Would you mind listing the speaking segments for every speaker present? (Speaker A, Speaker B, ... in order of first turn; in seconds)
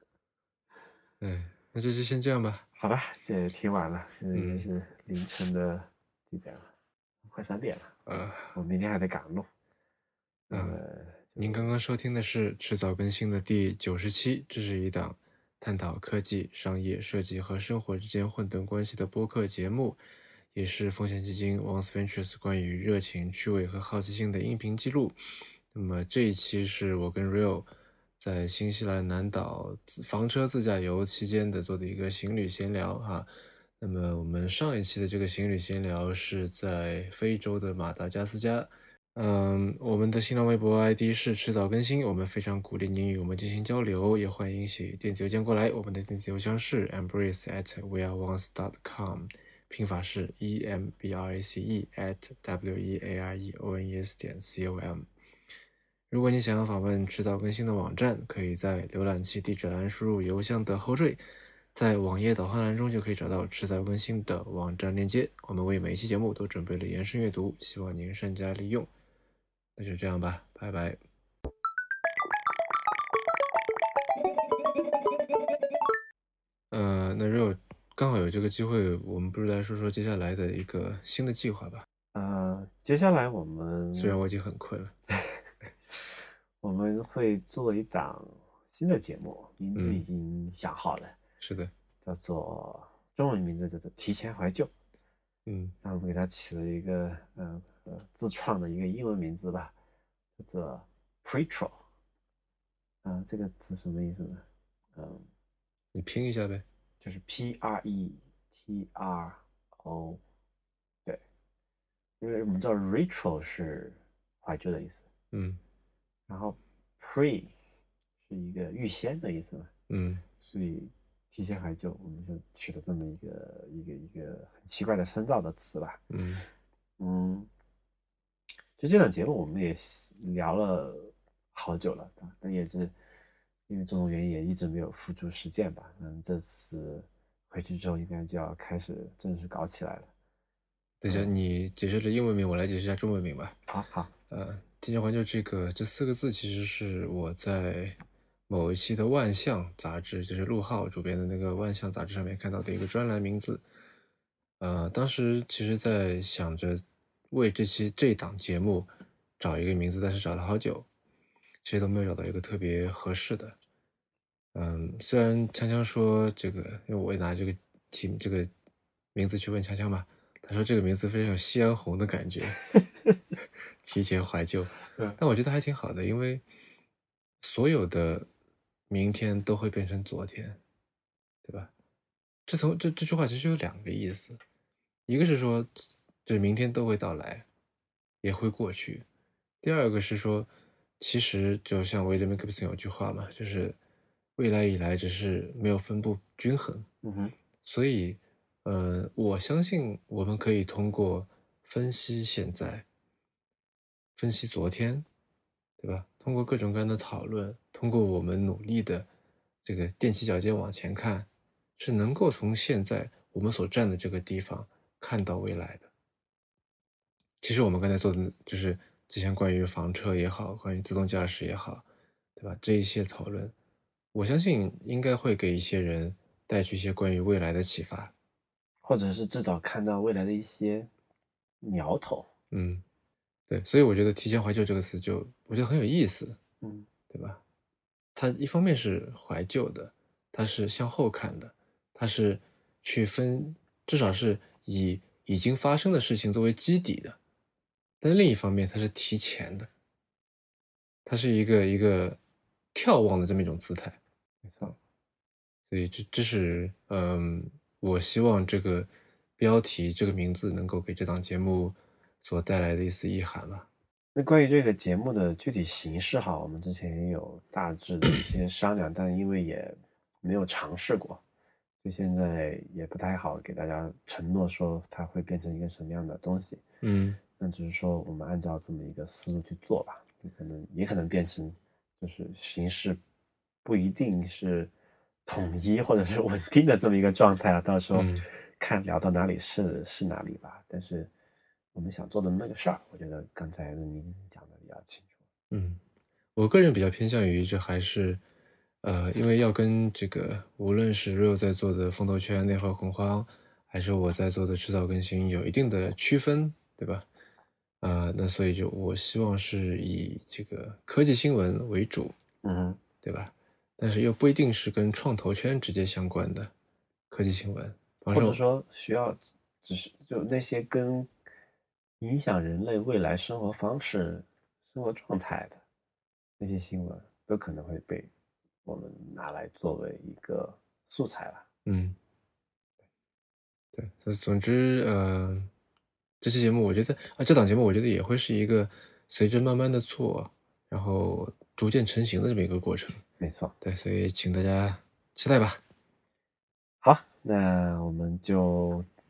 Speaker A: 1.2-2.6, 4.3-4.7, 8.1-8.6, 10.5-10.8, 11.4-20.0, 20.5-25.2, 25.7-27.7, 28.2-55.1, 56.1-61.2, 61.7-68.9, 69.8-71.0, 76.7-81.8, 83.9-84.9, 89.8-90.0, 91.4-91.7, 95.5-95.8, 105.9-106.6, 115.3-115.6, 119.9-120.2, 126.1-126.4, 141.0-143.6, 144.3-153.6, 154.6-160.9, 161.6-163.6, 164.5-168.5, 169.1-172.6, 173.8-176.4, 177.4-178.3, 178.9-180.6, 181.4-181.7, 182.4-184.4, 185.1-187.4, 188.2-189.1, 189.6-193.8, 194.4-196.9, 197.6-202.8, 204.2-205.1, 205.8-209.1, 209.6-215.9, 217.4-221.8, 222.4-223.5, 224.1-228.1, 232.5-232.8, 233.5-236.4, 237.1-237.4, 238.1-247.2, 248.0-249.7, 251.1-252.2, 252.7-254.0, 255.7-263.7, 276.8-277.2, 287.9-288.2, 295.5-295.8, 296.4-298.2, 298.8-307.1, 307.8-312.1, 313.0-316.5, 317.1-318.4, 331.6-332.0, 333.7-335.5, 336.2-343.0, 343.6-345.6
Speaker B: 2.7-6.7, 7.2-8.0, 8.5-9.5, 10.5-11.7, 82.1-84.2, 85.1-85.4, 86.6-91.2, 92.0-94.7, 95.8-99.7, 100.4-101.8, 103.0-105.3, 107.0-110.2, 112.2-115.0, 116.3-117.5, 118.2-119.7, 120.4-126.0, 127.0-127.5, 128.8-132.9, 133.7-140.1, 143.7-144.1, 197.0-197.3, 228.8-230.9, 231.6-232.3, 236.6-236.9, 254.4-254.8, 264.1-271.2, 271.8-276.6, 277.4-283.0, 283.6-284.7, 285.2-291.1, 291.7-295.1, 312.4-312.8, 318.1-321.1, 322.0-325.6, 326.4-328.1, 328.6-331.4, 343.2-343.5, 346.8-348.9